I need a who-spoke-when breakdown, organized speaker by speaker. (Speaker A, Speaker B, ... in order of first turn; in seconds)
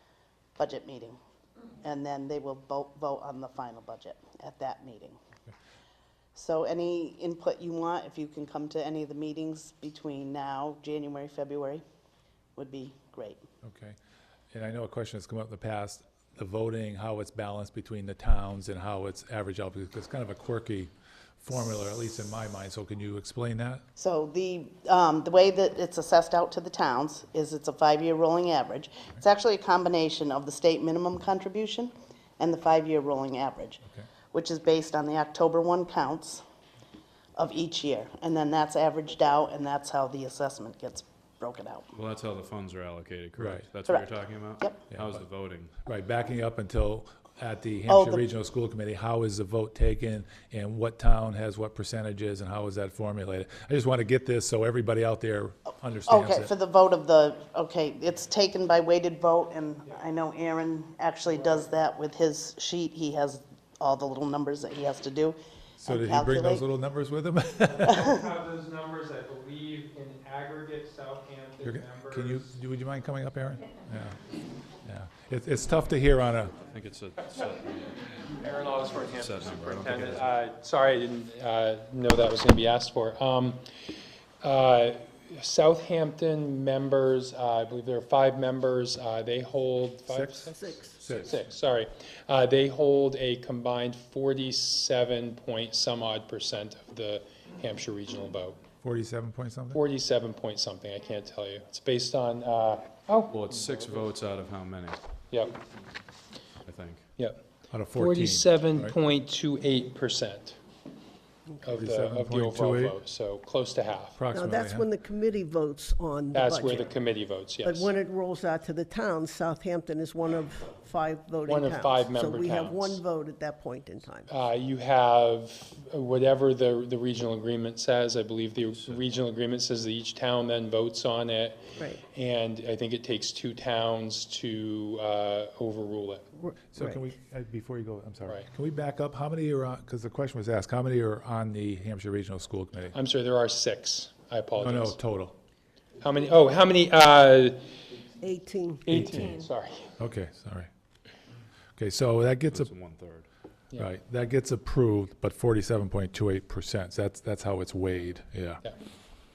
Speaker A: 0.6-1.2, 1.8-5.2, 6.3-11.8, 12.6-13.4, 23.9-33.8, 34.3-36.4, 37.4-41.9, 43.9-44.8, 47.9-48.2, 56.1-66.6
Speaker B: 13.6-14.0, 14.5-23.8, 43.4-43.7, 44.9-45.2, 45.8-56.5, 65.8-68.1, 71.6-74.2, 74.8-76.5, 90.1-91.5, 98.8-99.8, 107.7-109.0, 111.8-113.0, 114.2-114.9, 136.7-142.9, 144.6-145.3, 148.9-149.5, 150.0-150.7, 151.8-152.7, 153.8-158.6
Speaker C: 41.9-45.7, 76.6-77.9, 79.1-80.3, 103.3-105.0, 106.6-107.0, 128.7-129.0, 152.5-153.2
Speaker D: 61.2-61.7, 67.7-72.5, 78.4-83.8, 84.4-98.6, 99.7-104.0, 105.3-105.6, 107.2-110.6, 111.6-114.2, 116.3-117.9, 121.4-123.0, 124.3-136.3, 142.9-145.0, 146.0-147.7, 148.8-149.9
Speaker E: 114.3-116.9, 117.6-124.3, 136.4-137.0, 148.2-149.3